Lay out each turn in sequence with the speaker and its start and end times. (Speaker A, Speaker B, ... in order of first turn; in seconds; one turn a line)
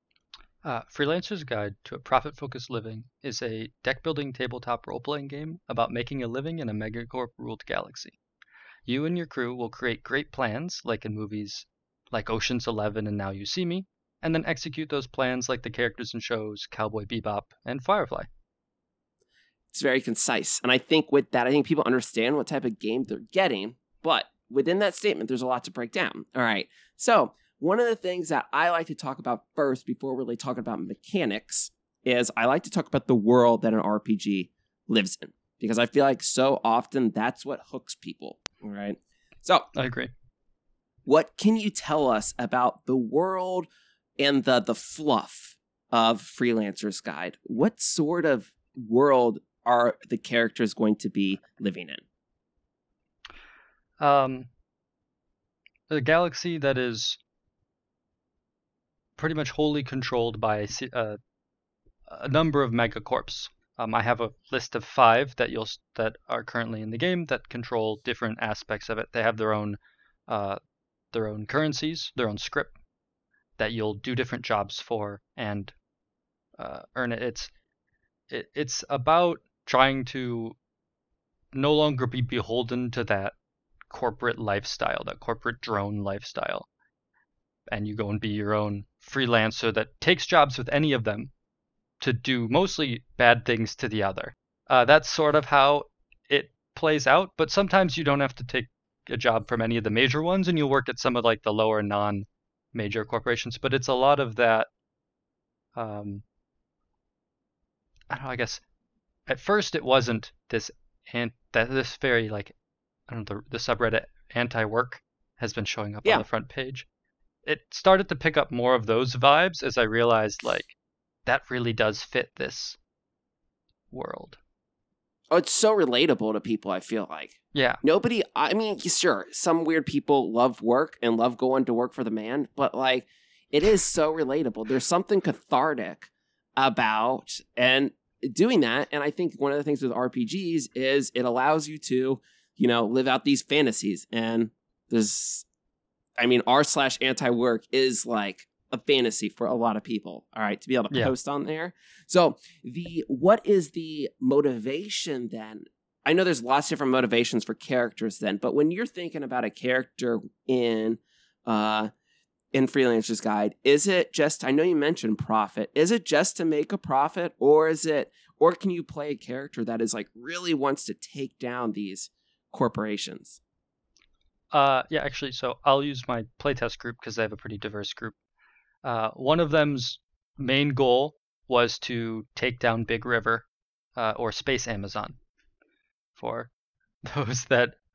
Speaker A: 0.6-8.2
Speaker A: 8.8-18.3
Speaker B: 19.7-39.7
Speaker A: 39.7-40.1
Speaker B: 41.0-43.7
Speaker B: 44.2-52.0
Speaker A: 54.0-54.5
Speaker A: 55.9-57.2
Speaker A: 59.2-61.2
Speaker A: 62.1-70.6
Speaker A: 71.1-72.7
Speaker A: 73.6-75.7
Speaker A: 76.6-77.5
Speaker A: 78.3-80.5
Speaker A: 81.5-83.3
Speaker A: 83.9-86.7
Speaker A: 87.7-91.3
Speaker A: 92.0-104.7
Speaker A: 105.7-106.2
Speaker A: 108.1-108.6
Speaker A: 109.3-112.5
Speaker A: 113.1-116.9
Speaker A: 117.4-120.7
Speaker A: 121.2-122.8
Speaker A: 123.9-124.4
Speaker B: 125.3-145.4
Speaker A: 127.5-127.8
Speaker B: 146.2-161.9
Speaker B: 162.5-173.4
Speaker A: 174.5-178.2
Speaker A: 178.8-185.2
Speaker A: 186.2-186.5
Speaker A: 187.1-187.8